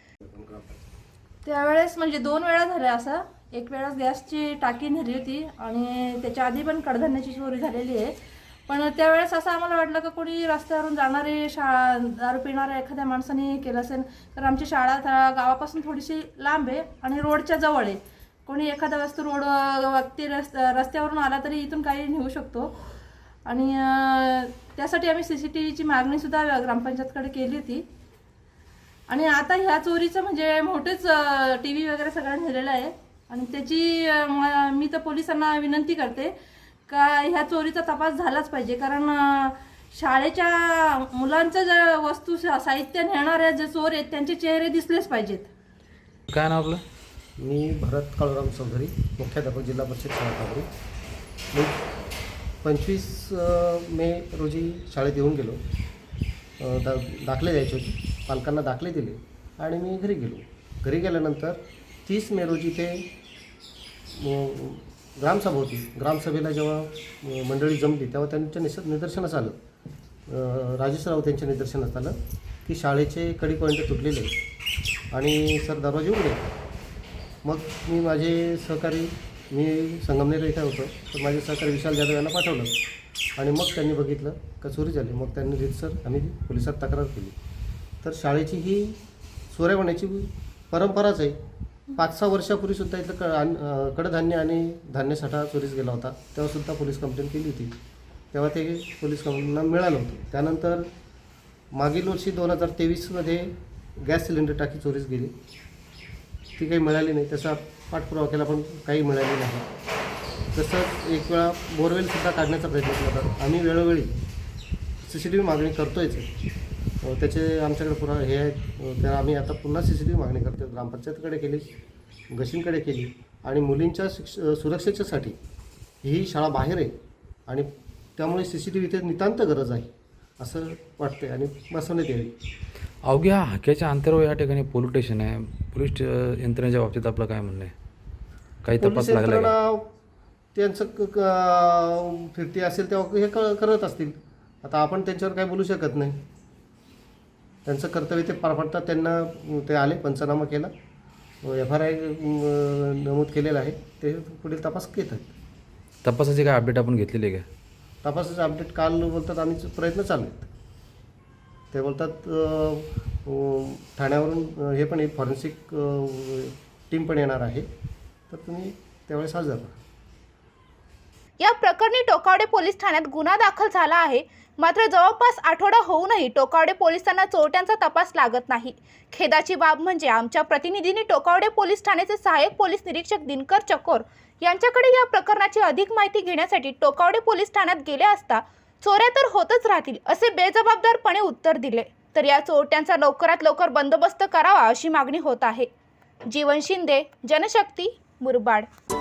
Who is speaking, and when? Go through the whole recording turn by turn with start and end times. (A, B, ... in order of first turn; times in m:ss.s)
0:00.3-0:00.8 A
0:01.4-0:08.1 B
0:08.7-0:22.7 B
0:23.5-0:27.8 B
0:29.1-0:36.3 B
0:36.9-0:45.5 B
0:46.3-0:46.8 C
0:47.4-0:50.7 A
0:51.5-0:51.8 A
0:52.6-0:55.6 A
0:56.6-1:03.0 A
1:04.2-1:09.6 A
1:10.3-1:14.3 A
1:15.1-1:16.4 A
1:17.4-1:22.7 A
1:23.4-1:27.4 A
1:28.0-1:29.0 A
1:29.5-1:31.4 A
1:31.9-1:37.8 A
1:38.3-1:40.9 A
1:41.7-1:45.3 A
1:46.6-1:49.7 A
1:50.5-1:54.1 A
1:55.0-1:56.3 A
1:57.0-2:01.7 A
2:02.3-2:05.4 A
2:06.0-2:06.9 A
2:07.5-2:12.3 A
2:13.0-2:17.7 C
2:18.6-2:19.5 C
2:18.8-2:19.9 A
2:20.6-2:26.2 A
2:27.6-2:30.7 A
2:31.4-2:35.3 A
2:36.0-2:37.5 C
2:38.0-2:40.5 A
2:41.7-2:47.7 A
2:48.3-2:49.8 A
2:51.4-3:15.7 D
3:16.3-3:18.7 D